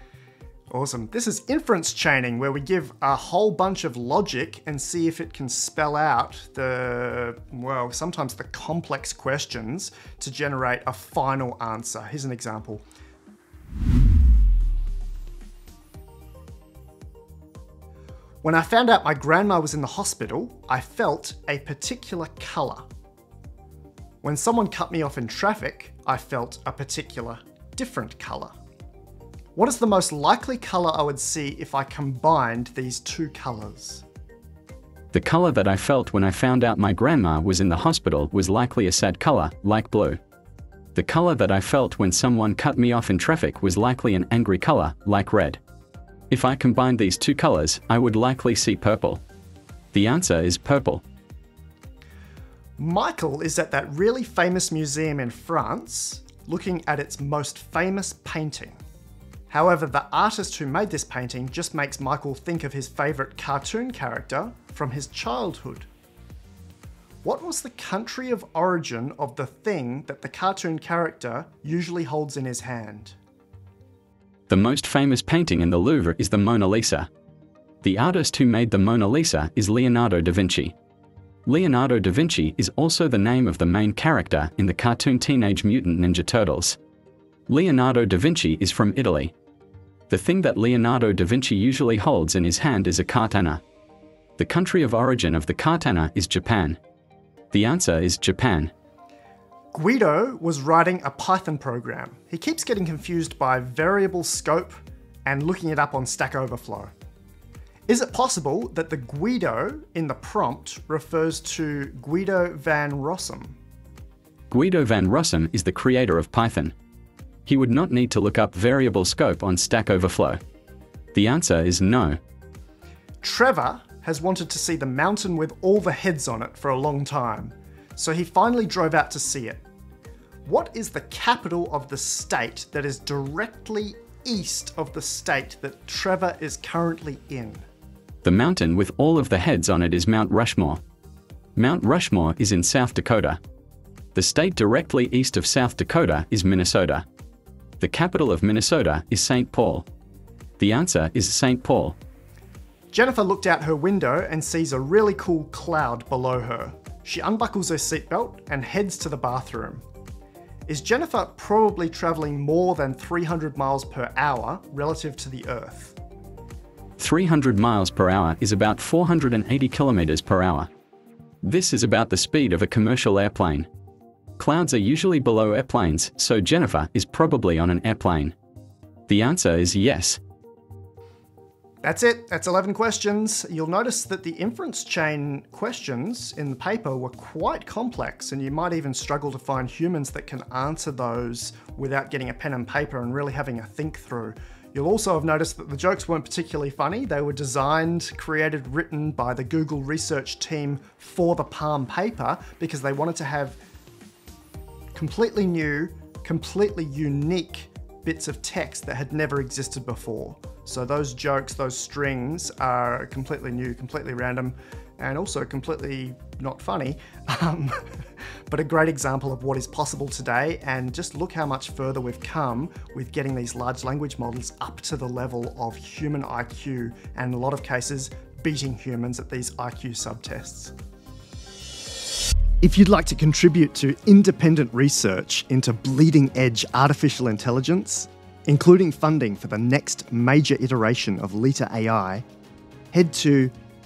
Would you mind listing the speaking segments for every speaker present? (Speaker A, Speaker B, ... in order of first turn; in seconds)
Speaker A: 0.7-12.8, 18.4-22.8, 24.2-28.5, 29.6-34.0, 52.8-58.8, 59.5-65.9, 67.2-73.2, 99.7-106.9, 107.9-113.6, 123.2-129.6, 130.5-137.7, 152.9-159.8, 160.7-166.0, 181.8-203.6, 204.9-217.8, 218.5-230.7, 232.6-242.2, 242.9-243.5
Speaker B: 35.1-40.2, 41.0-45.6, 46.3-49.2, 49.9-51.0, 74.5-77.1, 77.8-80.8, 81.5-86.8, 87.5-89.3, 90.1-93.6, 94.4-96.8, 97.5-98.7, 114.5-116.8, 117.5-120.4, 121.1-122.2, 138.2-140.8, 141.6-143.4, 144.2-147.1, 147.8-149.9, 150.6-152.0, 167.0-170.7, 171.4-173.7, 174.4-178.3, 179.1-180.2